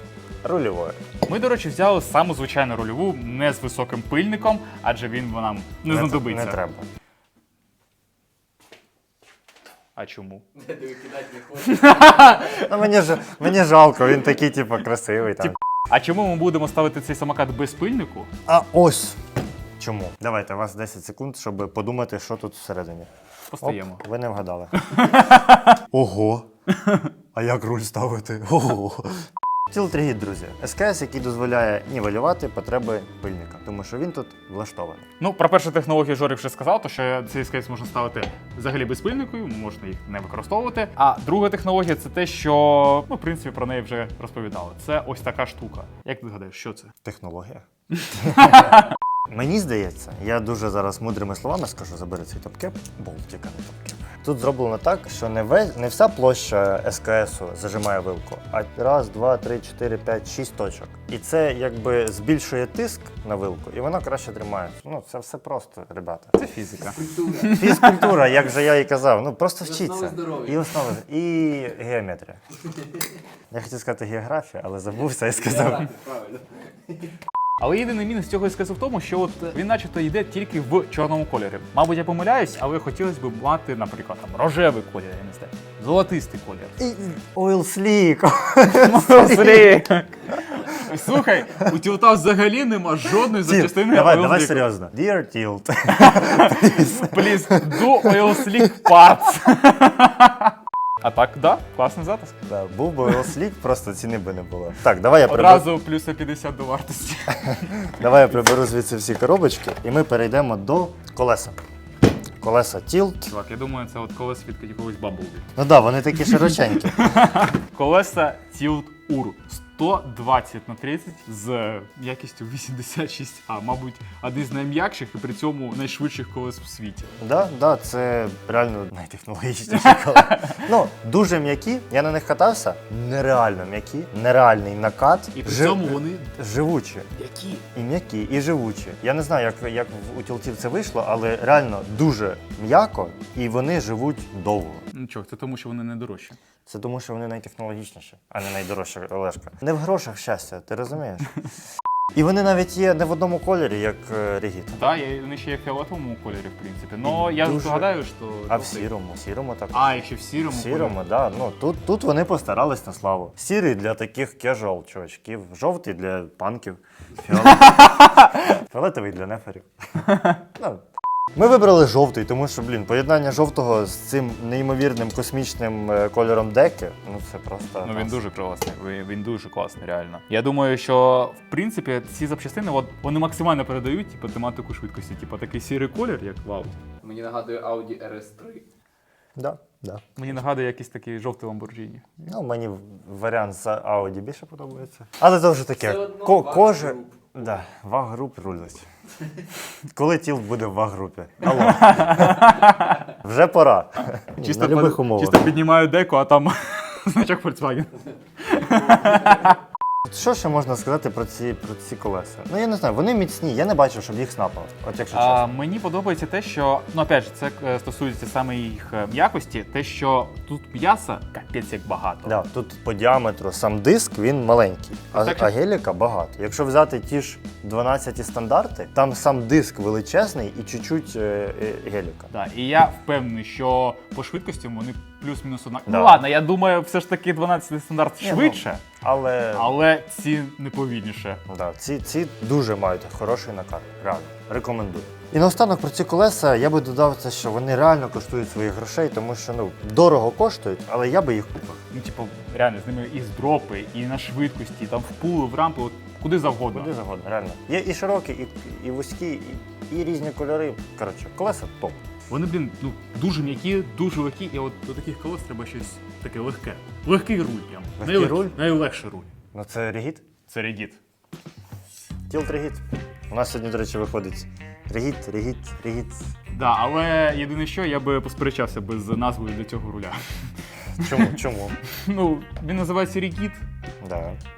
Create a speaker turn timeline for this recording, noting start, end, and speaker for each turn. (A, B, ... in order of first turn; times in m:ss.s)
0:00.4-0:01.0 A
0:01.3-0:06.6 B
0:05.8-0:06.8 A
0:10.0-0:10.8 B
0:10.7-0:11.8 C
0:11.5-0:12.7 B
0:12.3-0:15.6 A
0:15.4-0:18.3 B
0:18.4-0:19.2 A
0:19.8-0:23.1 A
0:23.5-0:24.0 B
0:23.6-0:24.7 A
0:24.8-0:25.8 B
0:25.8-0:26.5 A
0:26.8-0:27.1 B
0:27.3-0:35.1 A
0:35.2-0:46.9 B
0:47.0-1:06.4 A
0:48.0-0:48.9 B
1:06.4-1:08.1 B
1:07.4-1:12.4 A
1:09.8-1:10.5 C
1:13.5-1:16.0 A
1:15.6-1:16.6 C
1:17.6-1:26.8 B
1:26.8-1:29.8 A
1:28.6-1:34.7 B
1:33.3-1:38.9 A
1:35.9-1:42.4 B
1:42.4-1:45.7 A
1:45.2-1:47.9 B
1:47.5-1:51.6 A
1:52.4-1:53.3 A
1:53.2-1:55.5 B
1:55.6-1:57.0 A
1:56.3-2:07.2 B
2:07.2-2:17.1 A
2:09.7-2:10.6 B
2:15.3-2:16.4 B
2:17.1-2:17.6 B
2:17.7-2:24.9 A
2:24.9-2:26.4 B
2:26.7-2:31.4 A
2:32.1-2:34.9 A
2:34.7-2:38.9 B
2:37.0-2:49.7 A
2:39.7-2:41.0 B
2:47.4-2:48.4 B
2:50.0-2:50.4 B
2:50.2-2:58.2 A
2:57.8-3:06.8 B
3:07.0-3:08.6 C
3:09.4-3:10.4 A
3:10.2-3:12.0 B
3:12.2-3:18.8 A
3:15.8-3:17.3 C
3:19.9-3:22.6 A
3:21.4-3:23.1 B
3:23.1-3:25.5 A
3:24.4-3:29.6 B
3:30.0-3:35.5 A
3:35.1-3:42.4 B
3:42.2-3:52.3 A
3:45.1-3:45.5 B
3:52.3-3:58.8 B
3:55.9-3:56.2 A
3:58.2-3:59.8 A
3:59.5-4:01.4 B
4:01.5-4:11.8 A
4:11.9-4:16.9 B
4:16.7-4:22.0 A
4:22.3-4:29.3 B
4:28.0-4:28.6 A
4:29.5-4:30.2 A
4:30.5-4:31.0 B
4:32.3-4:36.3 A
4:36.5-4:43.6 B
4:41.0-4:41.8 A
4:44.0-4:44.4 A